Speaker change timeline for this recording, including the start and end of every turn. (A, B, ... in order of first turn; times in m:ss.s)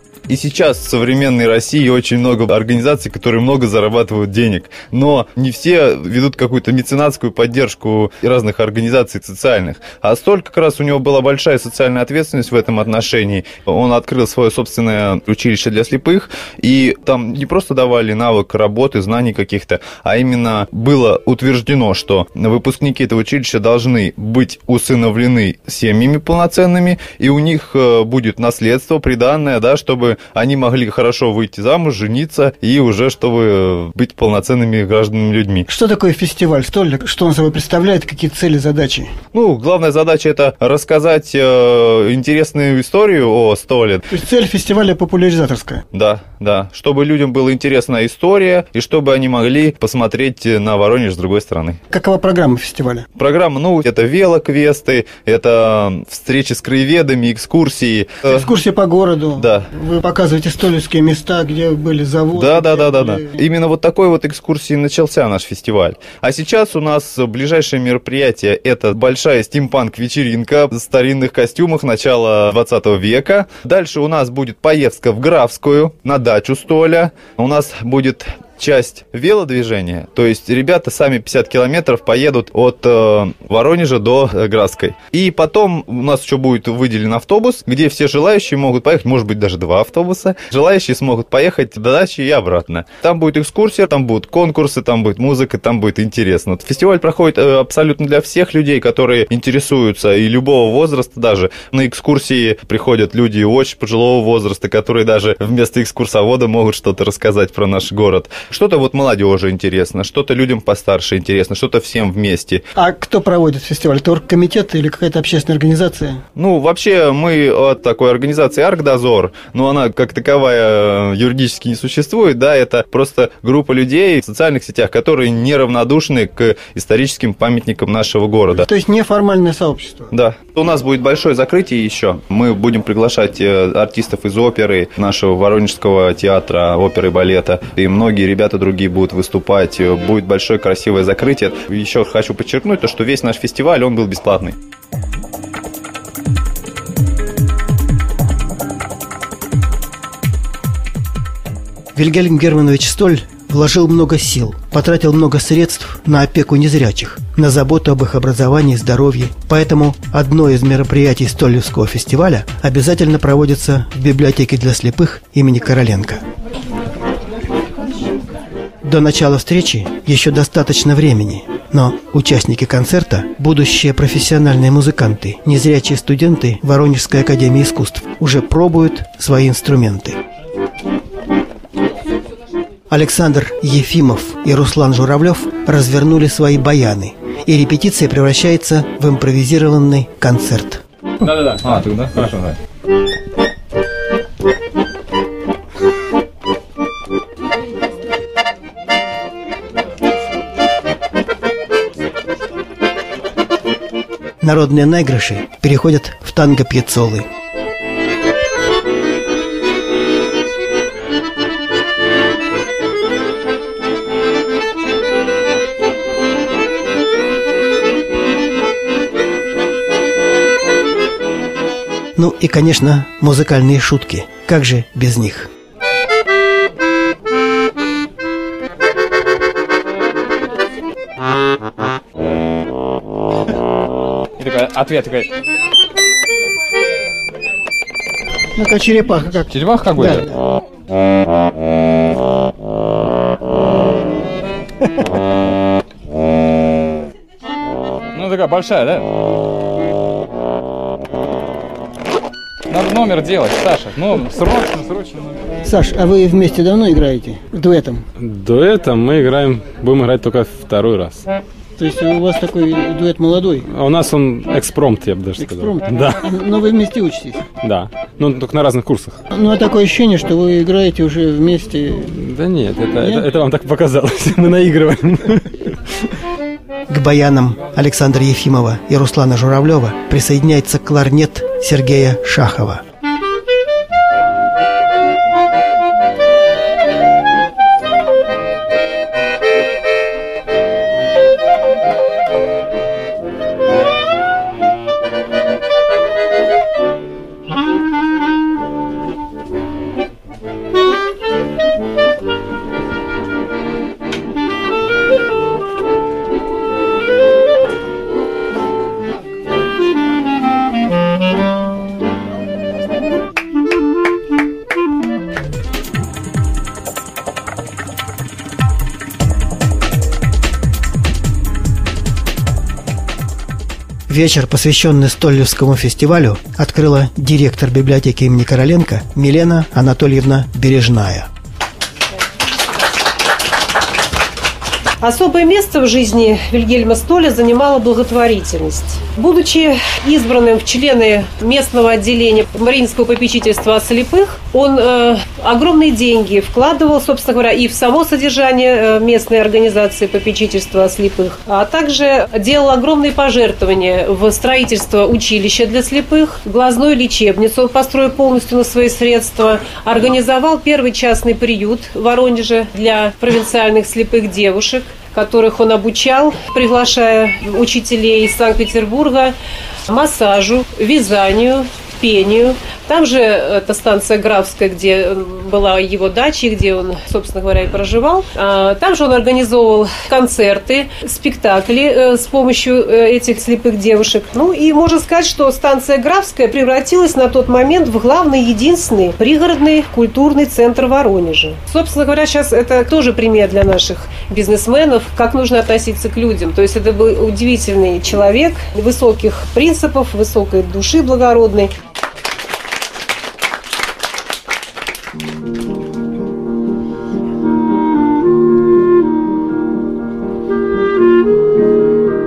0:00.3-0:35.7 A
0:35.7-0:39.1 B
0:39.3-0:44.0 A
0:44.1-0:45.8 B
0:45.9-0:51.8 A
0:51.9-0:53.0 B
0:53.2-0:58.5 A
0:58.3-1:03.3 B
0:59.4-0:59.7 A
1:02.3-1:52.6 A
1:52.8-1:56.2 B
1:56.4-2:08.7 A
2:08.5-2:10.1 B
2:10.1-2:24.5 A
2:31.9-2:46.2 B
2:48.8-3:00.2 B
3:02.9-3:10.8 B
3:11.2-3:12.2 C
3:11.6-3:12.5 A
3:24.4-3:27.3 B
3:42.2-3:45.5 B
3:54.4-3:55.3 C
3:58.6-4:00.3 B
3:59.5-4:00.2 C
4:08.1-4:09.0 C
4:12.7-4:15.2 C
4:15.6-4:18.0 B
4:18.2-4:21.2 D
4:21.8-4:23.7 B
4:23.7-4:26.2 D
4:25.4-4:27.4 B
4:27.6-4:29.2 D
4:29.3-4:32.1 B
4:32.1-4:35.6 D
4:33.0-4:33.3 B
4:36.9-4:42.8 B
5:24.1-5:31.3 B
5:35.0-6:09.3 E
6:09.9-6:41.7 E